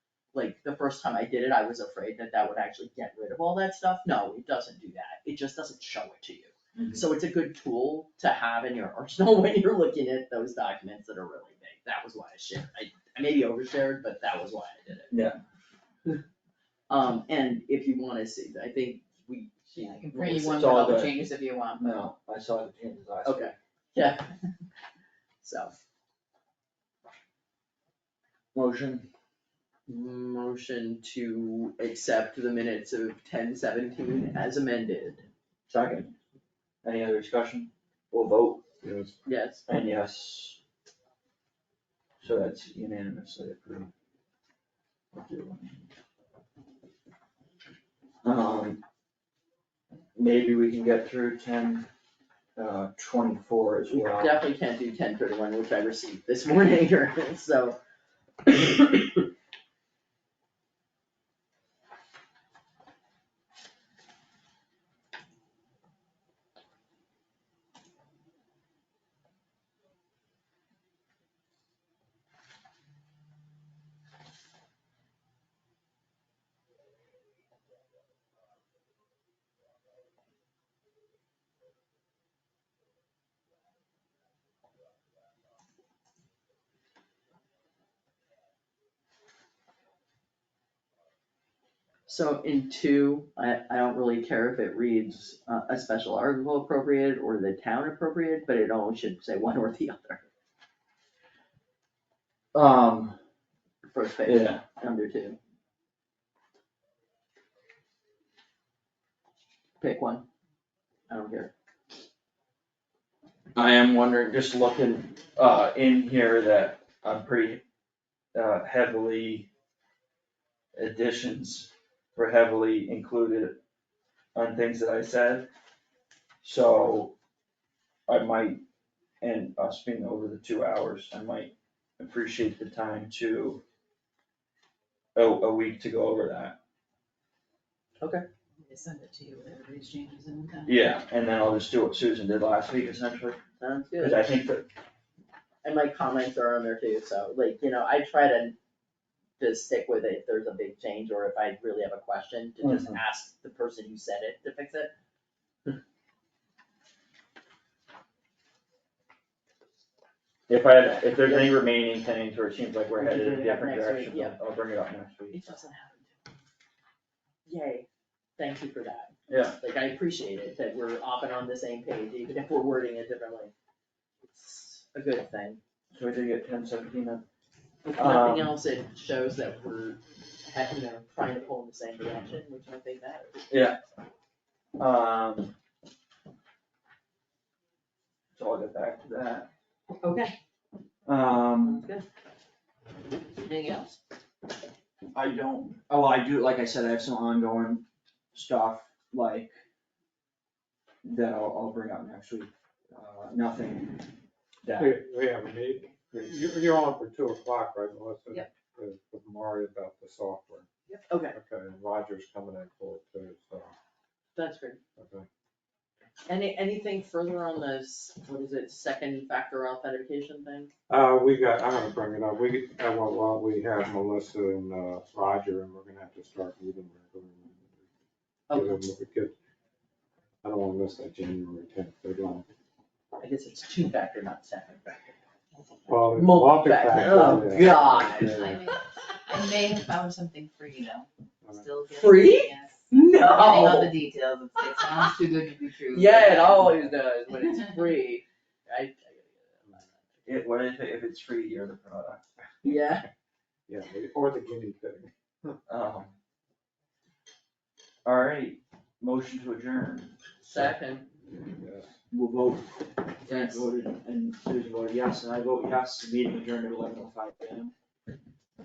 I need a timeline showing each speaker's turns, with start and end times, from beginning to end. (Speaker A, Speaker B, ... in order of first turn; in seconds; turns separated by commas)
Speaker A: 0.3-15.1, Speaker B: 6.8-7.0, Speaker B: 15.1-15.4, Speaker A: 16.9-20.8, Speaker C: 19.8-21.9, Speaker B: 20.5-21.2, Speaker B: 21.8-23.5, Speaker A: 23.2-24.3, Speaker A: 25.4-25.7, Speaker B: 28.5-29.1, Speaker A: 29.9-35.2, Speaker B: 35.7-36.1, Speaker B: 36.8-38.6, Speaker D: 38.8-39.2, Speaker A: 39.2-39.6, Speaker B: 39.7-40.6, Speaker B: 42.2-43.9, Speaker B: 45.1-45.9, Speaker B: 48.2-48.8, Speaker B: 50.2-51.9, Speaker B: 52.5-54.4, Speaker A: 53.9-57.8, Speaker A: 58.4-59.2, Speaker A: 92.1-100.2, Speaker B: 102.5-103.2, Speaker A: 103.9-105.4, Speaker B: 104.2-104.6, Speaker A: 109.8-110.2, Speaker A: 111.1-111.5, Speaker B: 113.5-117.6, Speaker B: 118.3-119.5, Speaker B: 120.7-123.5, Speaker B: 124.3-125.5, Speaker B: 126.4-127.1, Speaker B: 128.1-128.6, Speaker B: 129.2-133.6, Speaker B: 135.2-136.6, Speaker A: 138.0-138.2, Speaker C: 138.6-140.8, Speaker B: 140.7-143.4, Speaker A: 143.6-144.2, Speaker B: 144.0-144.7, Speaker A: 145.6-148.6, Speaker A: 149.4-154.9, Speaker B: 152.6-153.0, Speaker B: 160.5-165.4, Speaker A: 163.0-164.4, Speaker A: 165.3-166.2, Speaker A: 167.5-167.9, Speaker A: 168.4-173.5, Speaker B: 169.3-169.6, Speaker A: 174.3-175.6, Speaker B: 175.9-177.2, Speaker A: 177.9-183.8, Speaker B: 178.0-178.5, Speaker B: 183.5-183.8, Speaker B: 184.8-185.5, Speaker B: 188.4-189.5, Speaker A: 190.0-190.4, Speaker B: 191.1-191.9, Speaker A: 191.5-192.1, Speaker A: 193.4-194.0, Speaker B: 195.1-199.6, Speaker B: 201.0-204.1, Speaker B: 204.6-205.0, Speaker D: 204.8-210.7, Speaker B: 206.1-206.4, Speaker A: 210.9-211.4, Speaker D: 211.3-213.7, Speaker A: 214.4-214.8, Speaker D: 215.0-215.3, Speaker A: 216.3-220.7, Speaker D: 220.9-227.7, Speaker A: 228.5-228.8, Speaker D: 228.5-229.3, Speaker D: 230.4-232.5, Speaker A: 233.2-235.1, Speaker D: 235.9-238.6, Speaker A: 236.0-238.4, Speaker C: 237.9-246.7, Speaker A: 241.9-243.9, Speaker A: 245.9-250.1, Speaker B: 250.2-252.2, Speaker A: 252.6-253.1, Speaker D: 253.7-255.5, Speaker B: 255.7-256.1, Speaker B: 258.1-260.7, Speaker A: 260.4-261.1, Speaker D: 261.5-261.9, Speaker B: 262.1-267.7, Speaker A: 263.2-263.6